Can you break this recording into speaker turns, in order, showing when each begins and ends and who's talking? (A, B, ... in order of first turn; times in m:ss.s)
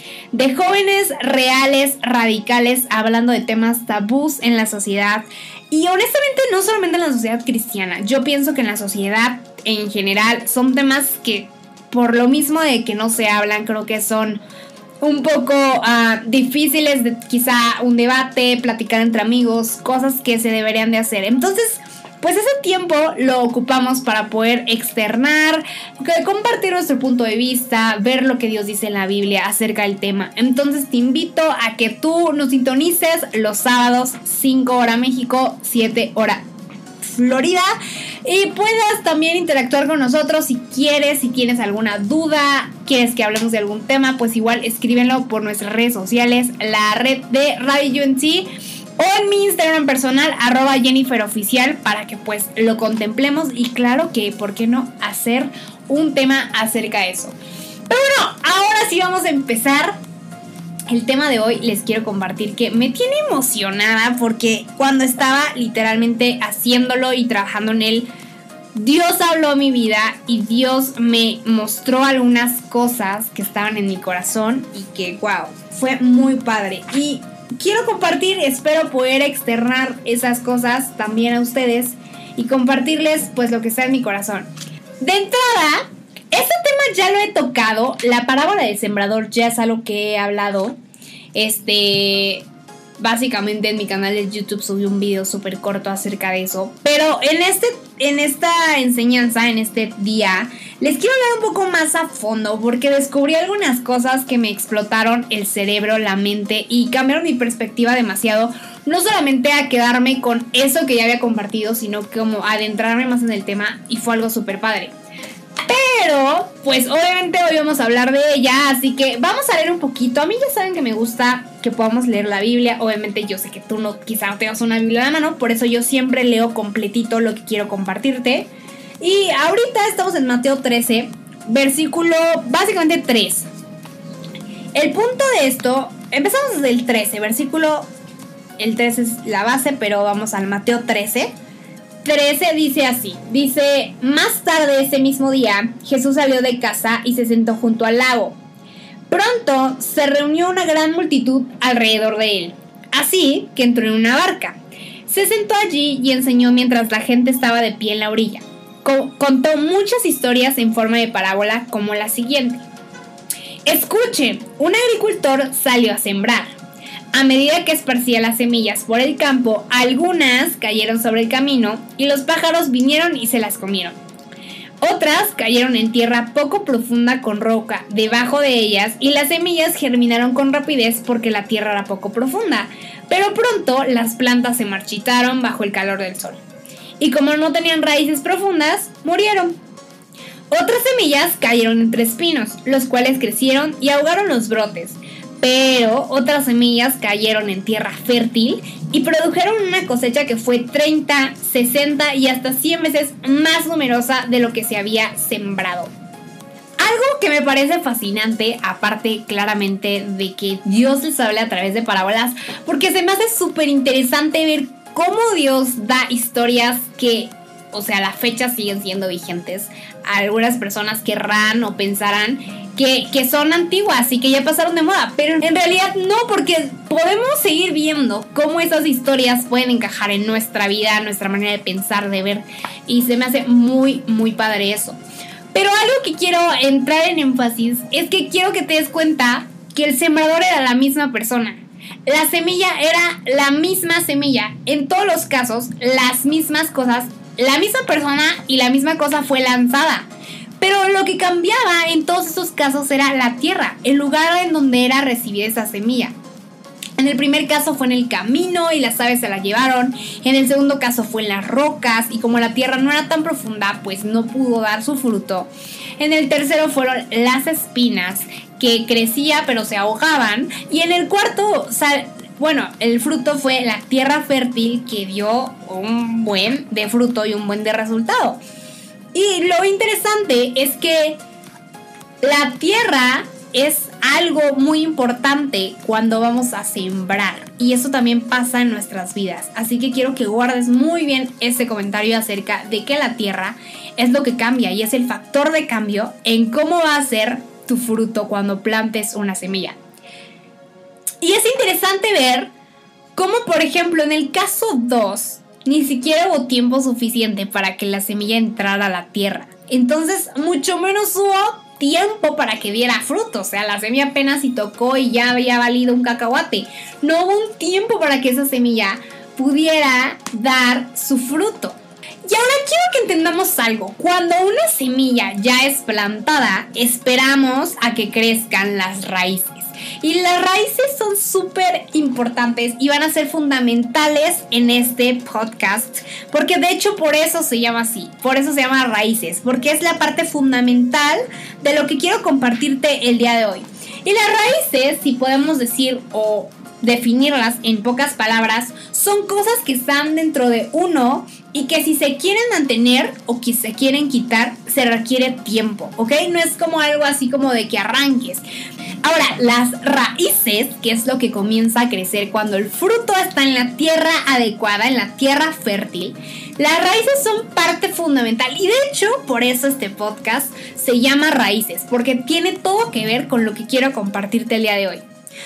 0:00.3-0:14.4 A
0:15.0-0:36.4 A
0:37.0-0:37.7 A
0:38.2-0:57.3 A
0:57.9-1:00.0 A
1:00.9-1:08.1 A
1:08.7-1:24.5 A
1:25.0-1:30.8 A
1:31.3-1:32.5 A
1:33.0-1:54.9 A
1:55.6-2:13.5 A
2:14.7-2:17.9 A
2:18.6-2:21.3 A
2:22.0-2:28.4 A
2:29.1-2:42.6 A
2:43.6-2:46.5 A
2:47.1-2:54.0 A
2:54.8-3:06.4 A
3:07.0-3:09.6 A
3:10.5-3:25.9 A
3:26.8-3:55.0 A
3:55.5-4:10.1 A
4:10.6-4:16.1 A
4:17.0-4:38.4 A
4:39.1-4:41.2 A
4:42.2-4:59.8 A
5:01.2-5:02.5 A
5:03.1-5:58.4 A
5:59.0-6:15.0 A